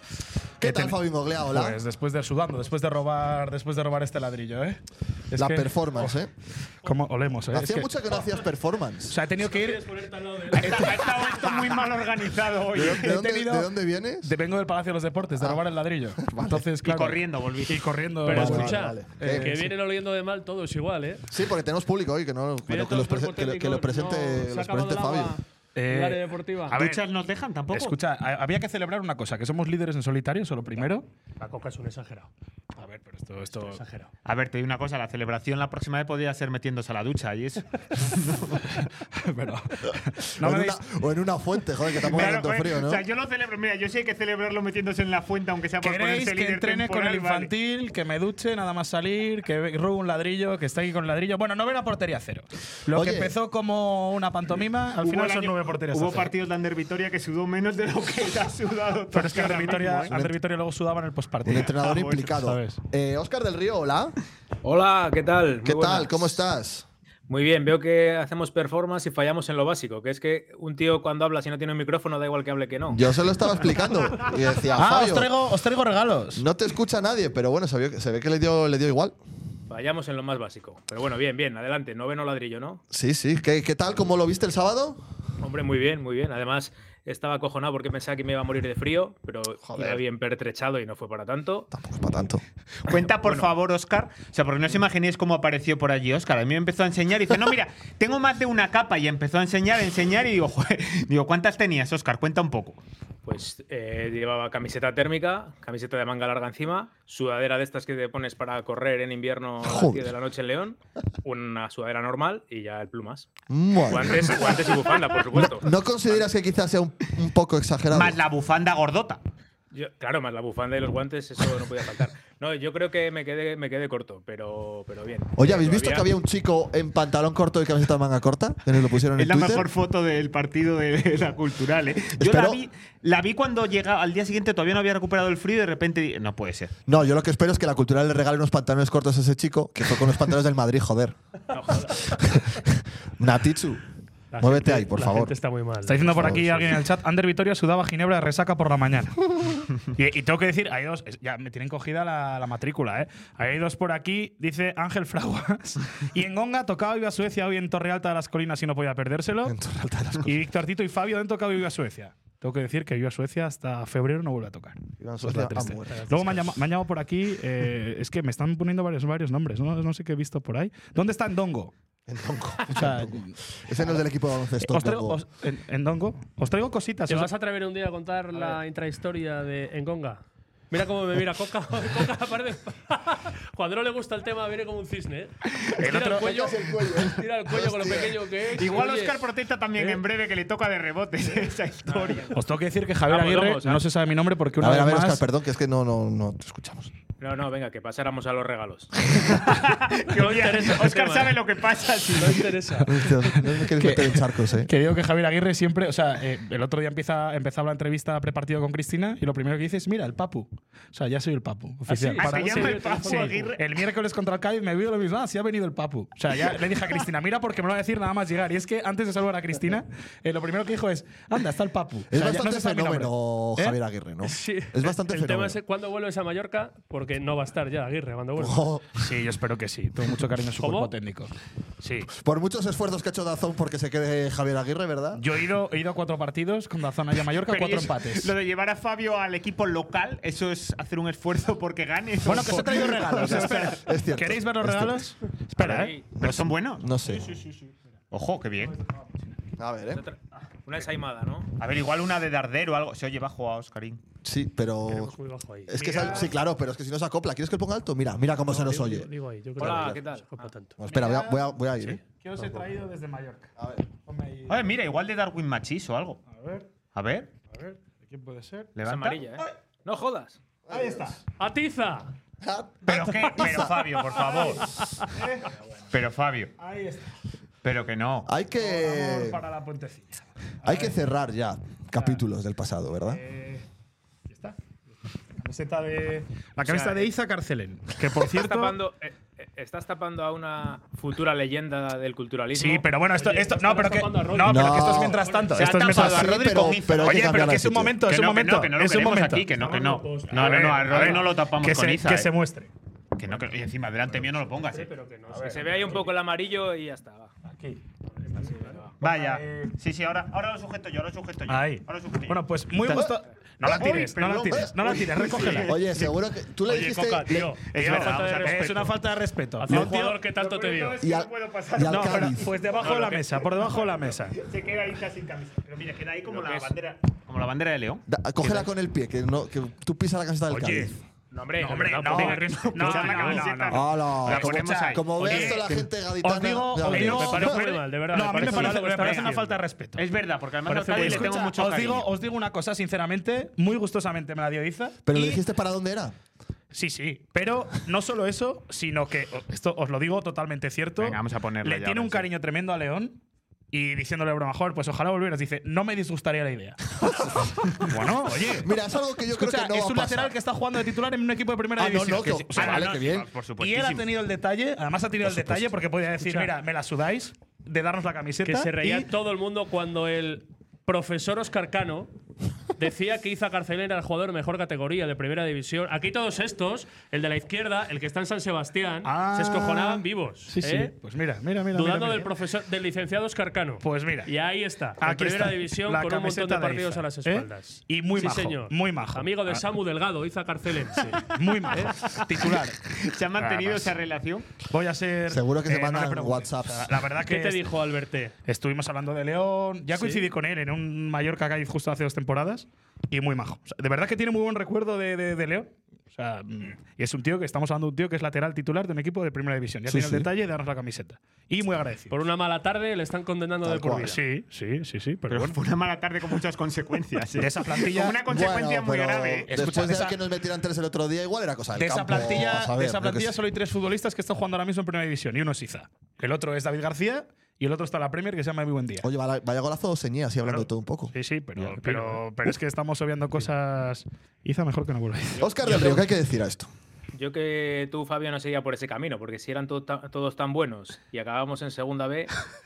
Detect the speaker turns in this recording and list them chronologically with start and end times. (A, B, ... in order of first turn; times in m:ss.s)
0:00.6-0:01.8 A
0:00.6-0:06.2 B
0:05.4-0:06.3 A
0:06.8-0:07.9 B
0:07.5-0:09.2 A
0:09.1-0:09.9 B
0:09.5-0:11.0 C
0:10.5-0:11.7 B
0:10.6-0:13.2 D
0:12.7-0:14.3 A
0:12.9-0:13.7 B
0:14.2-0:19.7 B
0:16.2-0:16.6 A
0:16.8-0:17.8 D
0:18.2-0:21.2 C
0:18.3-0:19.5 A
0:21.3-0:25.4 A
0:22.7-0:26.8 C
0:25.8-0:27.0 B
0:26.8-0:28.0 D
0:27.7-0:31.1 B
0:31.4-0:32.3 C
0:32.8-0:33.8 B
0:33.6-0:34.1 C
0:34.2-0:38.8 D
0:38.8-0:40.8 B
0:40.4-0:43.0 A
0:42.0-0:47.5 D
0:45.8-0:56.3 B
0:52.9-0:53.3 A
0:55.0-1:00.3 D
0:59.1-1:01.8 B
1:01.4-1:04.2 A
1:01.7-1:02.3 D
1:02.3-1:02.8 B
1:04.6-1:06.4 E
1:05.6-1:06.9 A
1:07.3-1:13.0 E
1:12.9-1:15.3 A
1:14.7-1:16.4 B
1:16.4-1:19.2 A
1:19.7-1:22.8 E
1:22.9-1:25.0 A
1:25.4-1:31.7 E
1:29.7-1:30.0 A
1:31.7-1:32.4 A
1:32.9-1:42.8 D
1:32.9-1:33.5 E
1:43.2-1:53.3 E
1:49.6-1:50.1 A
1:53.5-1:54.8 A
1:53.9-1:56.3 E
1:55.3-1:58.2 A
1:57.9-1:59.2 D
1:59.7-2:06.1 E
2:05.4-2:09.7 A
2:09.1-2:16.7 D
2:12.2-2:12.6 A
2:16.9-2:21.2 A
2:21.5-2:22.2 E
2:22.1-2:23.8 A
2:24.3-2:26.6 C
2:24.4-2:25.3 A
2:25.8-2:39.6 B
2:26.2-2:26.6 A
2:39.4-2:40.4 A
2:40.2-2:51.7 B
2:45.0-2:46.1 A
2:45.9-2:46.5 C
2:52.1-2:55.2 A
2:52.7-2:53.4 B
2:54.6-2:57.3 B
2:57.1-3:09.2 C
3:05.8-3:06.4 B
3:06.2-3:08.2 A
3:08.5-3:12.3 D
3:11.9-3:12.3 E
3:12.3-3:15.2 B
3:13.1-3:13.8 E
3:14.6-3:16.9 A
3:17.2-3:19.1 E
3:19.2-3:22.4 D
3:20.2-3:21.4 C
3:22.2-3:23.1 C
3:22.9-3:24.7 A
3:23.7-3:43.8 B
3:31.9-3:33.5 C
3:32.2-3:33.6 D
3:42.1-3:45.6 A
3:44.2-3:48.7 C
3:48.4-3:48.9 A
3:49.0-3:52.1 B
3:50.6-3:50.9 C
3:52.1-3:55.2 A
3:55.2-3:58.3 B
3:57.5-4:03.8 D
4:02.2-4:06.0 B
4:03.1-4:05.1 A
4:05.6-4:07.3 D
4:05.7-4:06.0 E
4:06.2-4:07.4 A
4:08.1-4:08.8 D
4:09.6-4:10.0 A
4:09.9-4:11.5 E
4:11.6-4:14.0 D
4:14.2-4:15.1 A
4:14.9-4:16.3 C
4:15.7-4:19.1 A
4:18.4-4:20.8 C
4:19.6-4:20.0 A
4:19.6-4:20.5 E
4:20.8-4:22.0 A
4:20.9-4:21.4 B
4:22.0-4:24.6 B
4:23.6-4:23.8 A
4:24.5-4:26.2 D
4:26.3-4:26.7 B
4:26.9-4:27.3 D
4:27.5-4:28.7 B
4:28.8-4:29.2 D
4:28.8-4:30.4 E
4:30.7-4:31.1 A
4:30.7-4:31.2 B
4:31.4-4:32.1 C
4:32.4-4:33.7 A
4:32.9-4:34.7 D
4:34.3-4:35.6 B
4:34.7-4:35.1 C
4:35.9-4:36.5 D
4:36.6-4:37.1 B
4:37.6-4:38.3 D
4:38.3-4:39.4 A
4:38.6-4:41.0 B
4:40.6-4:43.2 A
4:43.1-4:43.6 B
4:44.3-4:44.6 B
4:45.4-4:48.8 B
4:46.6-4:47.1 E
4:48.2-4:52.9 E
4:52.5-4:59.5 B
4:53.2-4:55.6 C
4:54.4-4:55.2 A
4:55.6-5:02.3 D
4:55.9-4:58.0 A
4:59.6-5:01.3 C
5:00.3-5:02.7 B
5:03.2-5:04.9 D
5:04.6-5:06.1 C
5:05.3-5:05.7 B
5:05.4-5:07.3 E
5:07.5-5:07.8 B
5:08.3-5:08.9 E
5:08.4-5:08.8 C
5:09.0-5:12.4 D
5:09.1-5:09.7 B
5:11.5-5:15.8 B
5:12.8-5:13.9 A
5:13.6-5:16.1 D
5:14.5-5:15.0 A
5:15.6-5:17.5 A
5:16.7-5:19.0 C
5:17.7-5:18.9 D
5:17.8-5:20.2 B
5:19.6-5:21.0 C
5:19.7-5:28.0 D
5:21.0-5:22.5 A
5:21.9-5:24.4 B
5:22.8-5:23.2 E
5:26.3-5:26.7 E
5:28.1-5:31.0 A
5:30.5-5:31.0 C
5:31.3-5:32.9 E
5:31.6-5:35.7 B
5:32.0-5:33.5 C
5:32.1-5:35.7 D
5:33.7-5:37.6 A
5:36.2-5:40.0 B
5:36.9-5:39.6 C
5:38.2-5:39.3 D
5:40.0-5:42.1 D
5:40.7-5:41.5 C
5:40.7-5:45.4 B
5:45.1-5:46.1 A
5:46.7-5:53.2 B
5:51.0-5:52.3 D
5:53.7-5:58.7 B
5:58.6-6:00.3 A
5:59.3-6:03.0 B
6:01.8-6:03.3 A
6:02.2-6:04.1 D
6:03.6-6:09.1 B
6:05.2-6:05.7 A
6:06.2-6:06.5 C
6:08.4-6:12.1 C
6:12.8-6:20.9 C
6:19.0-6:22.3 B
6:21.7-6:32.0 C
6:23.8-6:24.3 B
6:25.0-6:29.6 B
6:31.1-6:32.8 B
6:32.9-6:34.5 D
6:33.4-6:34.0 B
6:34.7-6:37.7 B
6:35.3-6:36.9 A
6:37.3-6:38.4 C
6:38.5-6:52.1 B
6:40.0-6:40.2 C
6:49.9-6:50.3 A
6:52.1-6:54.2 C
6:53.6-6:54.2 A
6:54.1-6:55.6 B
6:55.3-6:59.5 D
6:57.4-6:58.2 B
6:58.3-7:03.3 A
6:59.5-7:00.2 B
7:01.8-7:09.1 B
7:09.0-7:11.1 A
7:11.1-7:15.5 B
7:15.4-7:16.7 A
7:15.4-7:16.1 E
7:17.1-7:22.4 E